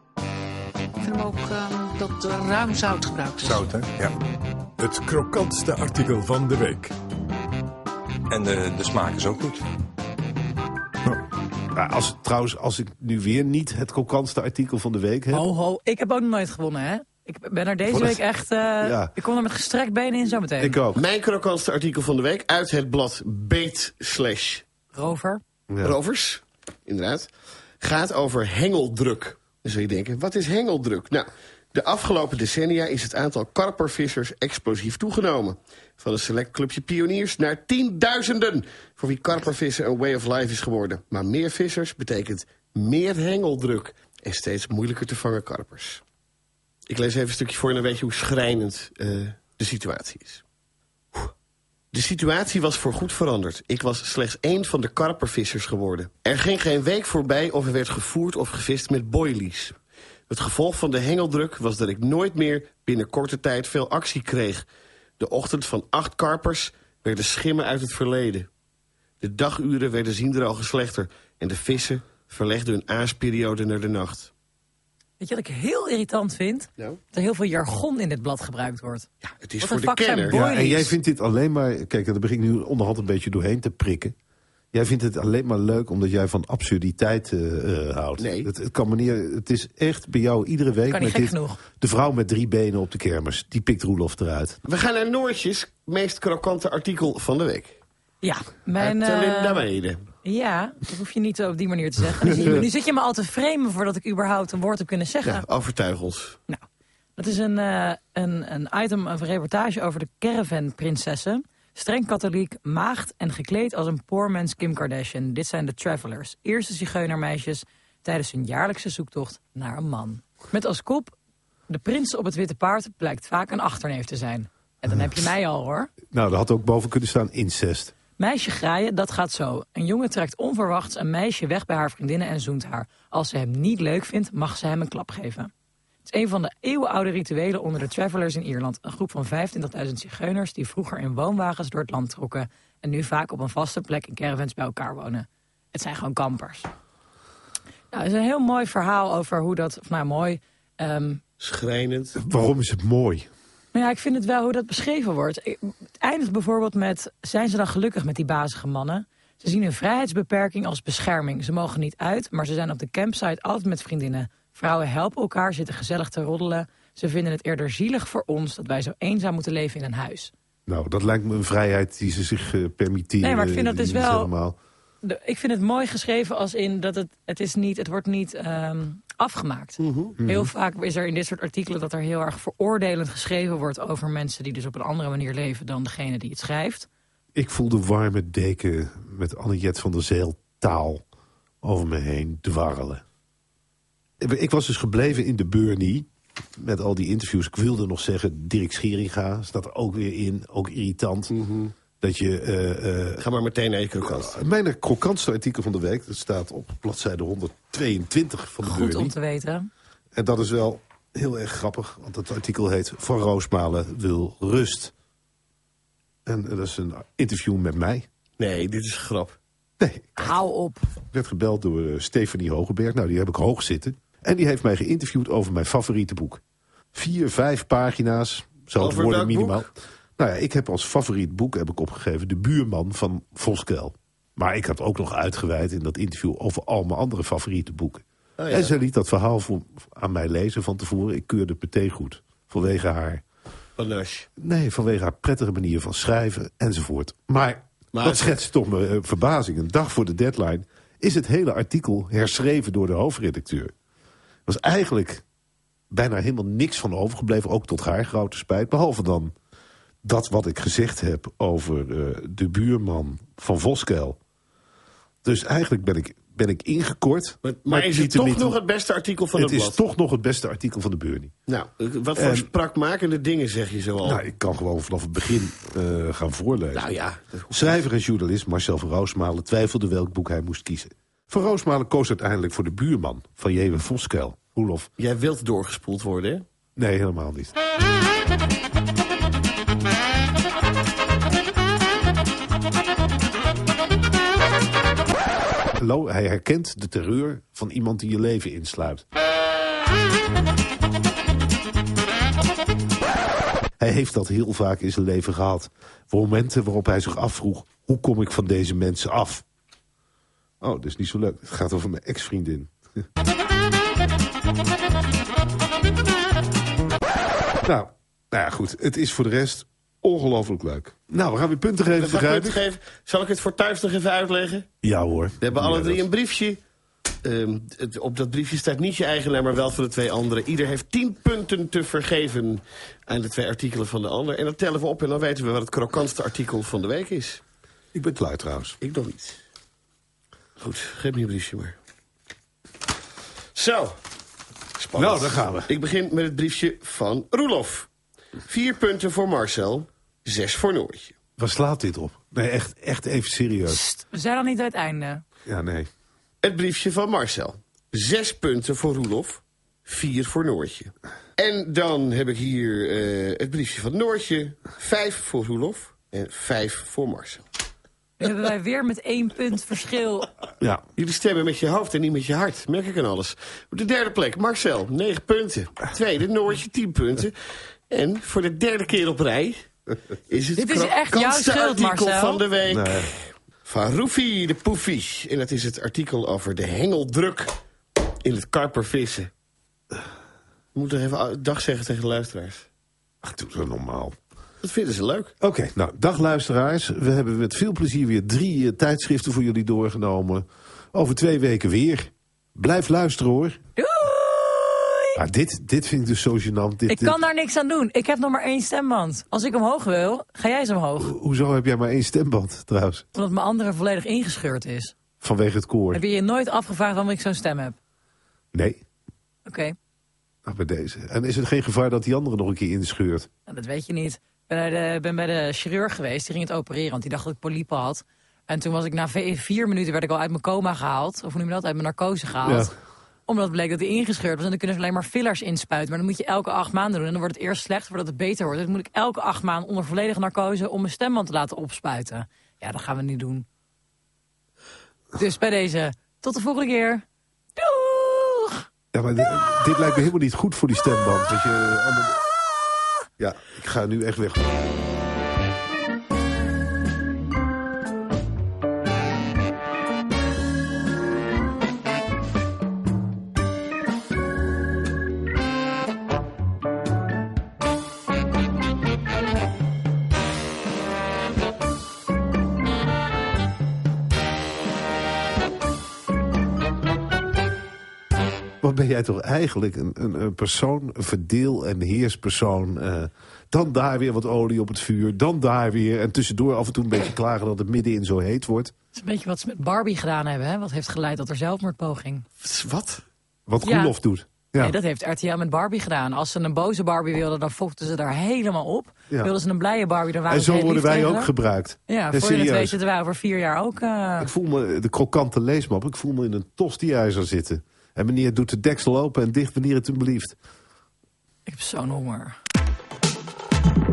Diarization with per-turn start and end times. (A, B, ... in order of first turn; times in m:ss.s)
0:01.0-0:03.6 A
0:03.4-0:04.2 B
0:04.8-0:06.9 C
0:08.3-0:09.6 B
0:11.7-0:15.5 D
0:15.3-0:20.8 E
0:17.9-0:18.2 D
0:18.8-0:19.1 D
0:20.6-0:21.0 D
0:21.0-0:24.7 F
0:24.9-0:25.4 E
0:25.7-0:26.0 D
0:25.8-0:27.3 F
0:27.8-0:46.0 F
0:46.9-0:50.4 F
0:51.9-0:59.8 F
1:00.3-1:04.7 F
1:05.2-1:08.5 F
1:09.2-1:14.3 F
1:15.2-1:19.1 E
1:19.2-1:20.4 F
1:19.6-1:21.0 E
1:20.3-1:24.1 D
1:24.7-1:34.6 D
1:28.2-1:28.5 F
1:30.9-1:31.6 E
1:34.6-1:37.8 F
1:38.2-1:39.6 E
1:38.8-1:40.1 F
1:40.2-1:45.4 E
1:45.2-1:46.4 F
1:47.2-2:01.2 E
2:01.7-2:05.9 E
2:06.1-2:07.9 D
2:08.2-2:15.5 E
2:16.0-2:26.7 E
2:27.9-2:31.2 E
2:31.4-2:32.2 F
2:32.2-2:33.3 D
2:33.7-2:50.3 E
2:50.7-2:54.6 D
2:53.2-2:54.3 E
2:55.0-3:06.9 E
2:59.8-3:00.2 F
3:00.2-3:00.5 D
3:07.4-3:11.0 D
3:11.6-3:13.0 D
3:14.2-3:21.4 D
3:21.3-3:21.7 F
3:22.0-3:23.2 D
3:23.2-3:24.4 F
3:24.0-3:29.2 D
3:28.6-3:29.7 E
3:30.2-3:34.9 D
3:36.3-3:38.1 D
3:38.4-3:39.4 F
3:39.8-3:40.4 D
3:40.2-3:40.9 E
3:41.1-3:46.4 D
3:46.9-4:03.2 D
3:48.8-3:49.7 F
3:58.4-3:58.7 F
4:03.8-4:04.3 F
4:04.4-4:13.7 D
4:07.9-4:08.4 F
4:14.5-4:15.2 D
4:15.9-4:19.3 D
4:20.0-4:24.2 D
4:25.2-4:28.6 D
4:27.4-4:29.8 F
4:29.4-4:31.3 D
4:31.5-4:34.2 F
4:32.2-4:32.5 D
4:34.0-4:36.9 D
4:36.7-4:37.8 F
4:37.5-4:44.9 D
4:45.0-4:46.4 F
4:46.8-4:47.6 D
4:55.8-4:59.0 D
5:03.8-5:09.4 D
5:10.6-5:13.0 D
5:17.6-5:22.6 D
5:21.9-5:24.7 F
5:24.8-5:26.1 D
5:25.4-5:26.6 F
5:27.2-5:37.4 F
5:37.9-5:38.8 D
5:38.8-5:39.4 F
5:40.6-5:41.8 F
5:43.6-5:43.9 F
5:44.8-5:47.9 F
5:45.0-5:45.7 D
5:48.5-5:51.2 F
5:51.4-5:53.8 D
5:53.7-5:55.2 E
5:55.5-5:55.9 D
5:56.4-6:07.4 F
6:08.2-6:10.3 E
6:11.0-6:17.3 F
6:17.9-6:19.7 F
6:20.3-6:27.6 F
6:20.6-6:22.4 E
6:22.7-6:23.1 D
6:28.2-6:29.3 F
6:30.8-6:32.7 F
6:33.2-6:34.2 D
6:34.6-6:35.3 F
6:35.4-6:43.6 D
6:43.8-6:45.2 E
6:45.2-6:47.2 D
6:46.9-6:51.1 E
6:51.0-6:53.0 D
6:53.2-6:54.9 E
6:55.2-6:56.0 D
6:55.9-6:57.8 E
6:58.5-6:58.8 D
6:59.5-6:59.8 E
7:00.5-7:03.3 D
7:03.5-7:12.7 E
7:12.4-7:12.7 D
7:13.3-7:23.5 E
7:25.2-7:27.0 E
7:27.6-7:28.6 E
7:28.9-7:32.2 D
7:33.2-7:34.6 D
7:58.6-8:08.7 D
8:08.9-8:12.2 E
8:12.4-8:13.0 F
8:13.5-8:14.8 D
8:13.6-8:14.0 E
8:14.6-8:21.3 E
8:20.3-8:22.8 D
8:21.9-8:24.3 E
8:24.2-8:30.4 D
8:31.5-8:32.4 E